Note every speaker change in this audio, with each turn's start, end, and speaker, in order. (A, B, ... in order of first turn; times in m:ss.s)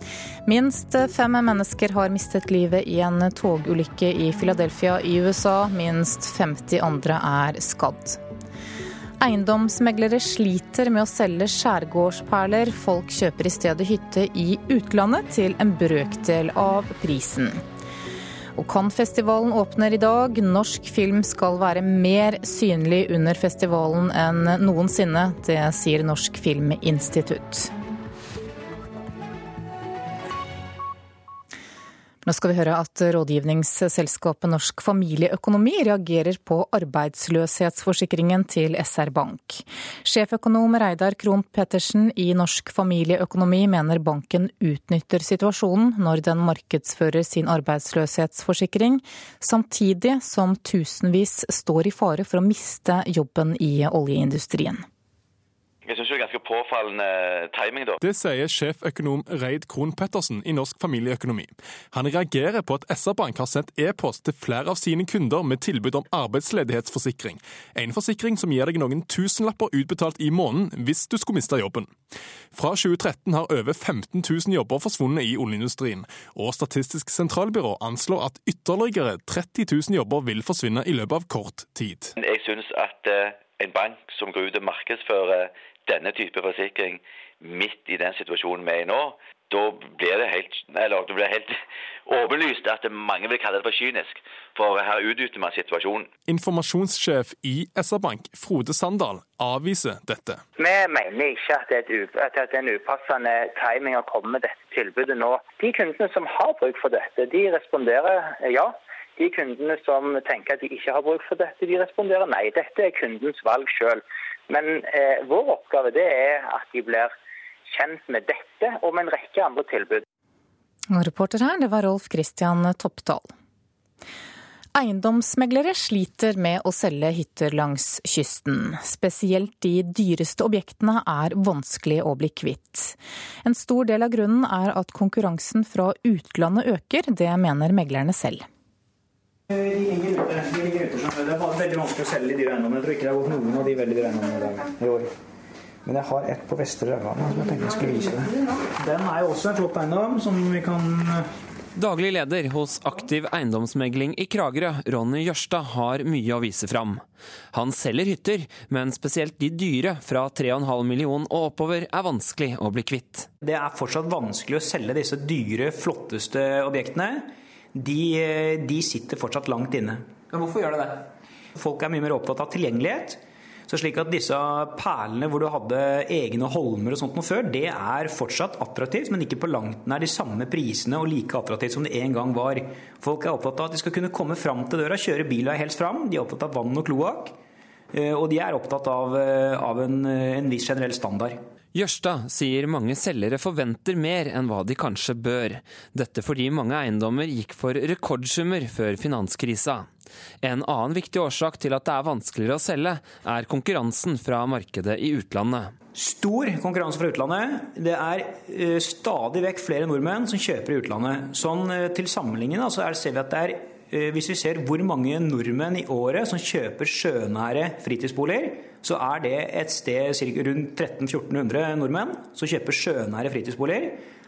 0:00.4-0:08.2 A
0:09.2-0:17.6 A
0:18.6-0:27.7 A
0:32.2-0:54.8 A
0:55.8-0:58.0 B
0:58.0-1:11.9 C
1:12.5-1:22.1 C
1:22.2-1:36.1 B
1:36.3-1:40.4 C
1:40.6-1:57.1 D
1:57.7-2:00.0 D
2:00.9-2:03.3 A
2:04.7-2:18.4 A
2:19.5-2:25.0 E
2:25.8-2:31.2 E
2:31.8-2:43.3 F
2:43.4-3:07.3 E
3:07.9-3:11.4 E
3:11.7-3:19.9 F
3:20.4-3:25.7 F
3:25.9-3:44.0 E